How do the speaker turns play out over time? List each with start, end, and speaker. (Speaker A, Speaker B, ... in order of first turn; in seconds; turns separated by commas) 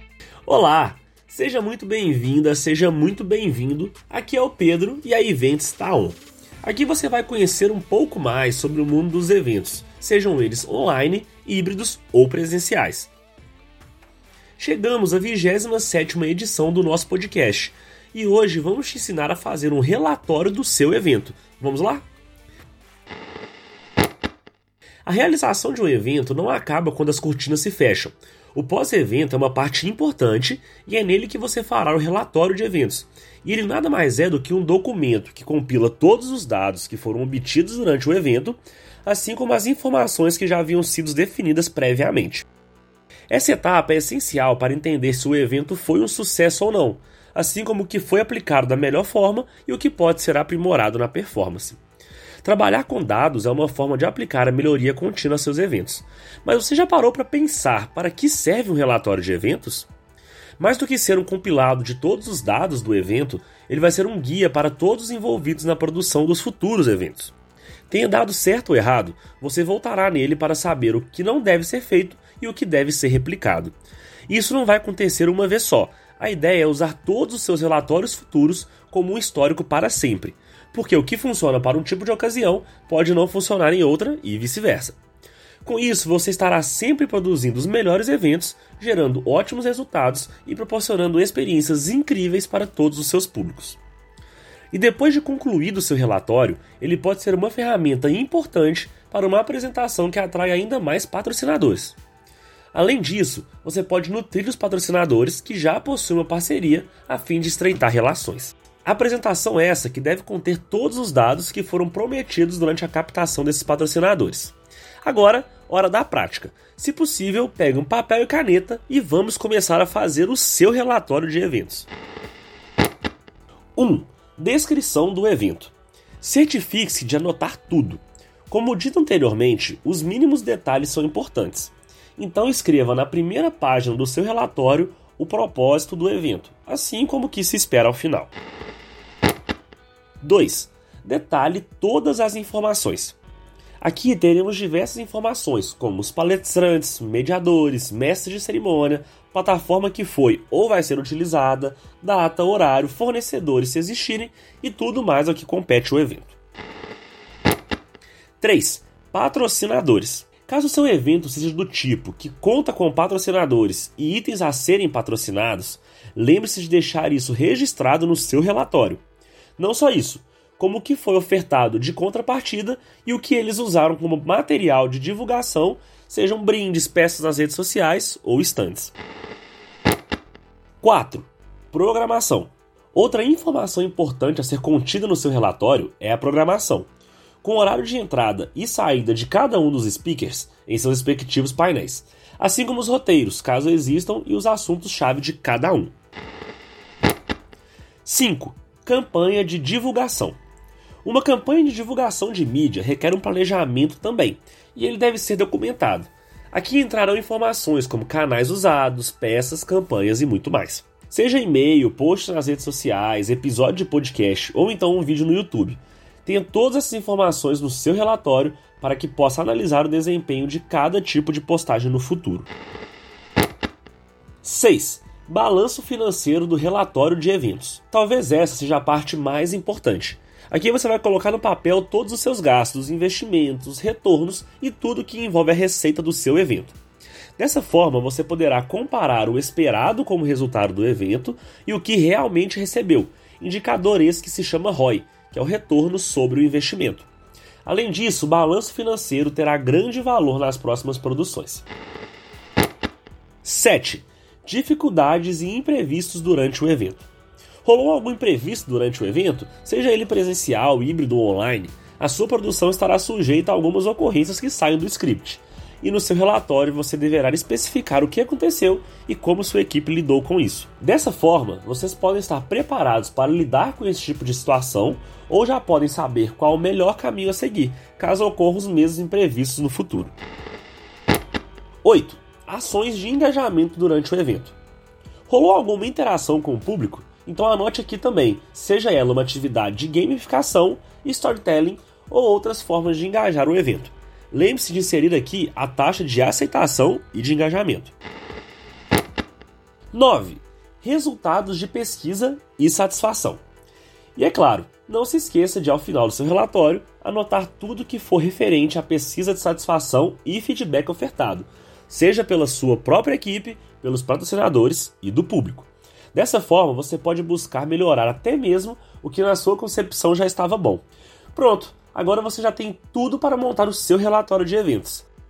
Speaker A: 0.5-13.1, Speaker A: 14.6-22.1, Speaker A: 25.0-42.5, Speaker A: 43.3-51.8, Speaker A: 52.4-59.9, Speaker A: 60.6-67.3, Speaker A: 67.9-73.7, Speaker A: 74.3-85.0, Speaker A: 85.6-93.8, Speaker A: 94.7-102.0, Speaker A: 102.7-121.9, Speaker A: 123.7-138.3, Speaker A: 140.2-143.2, Speaker A: 143.8-156.4, Speaker A: 158.4-169.0, Speaker A: 169.6-178.9, Speaker A: 180.8-186.9, Speaker A: 187.4-195.9, Speaker A: 198.0-200.4, Speaker A: 201.0-222.5, Speaker A: 224.4-236.8, Speaker A: 237.4-247.1, Speaker A: 247.6-251.6, Speaker A: 253.4-257.1, Speaker A: 257.6-280.1, Speaker A: 281.8-284.6, Speaker A: 285.3-297.9, Speaker A: 299.9-303.4, Speaker A: 304.1-325.1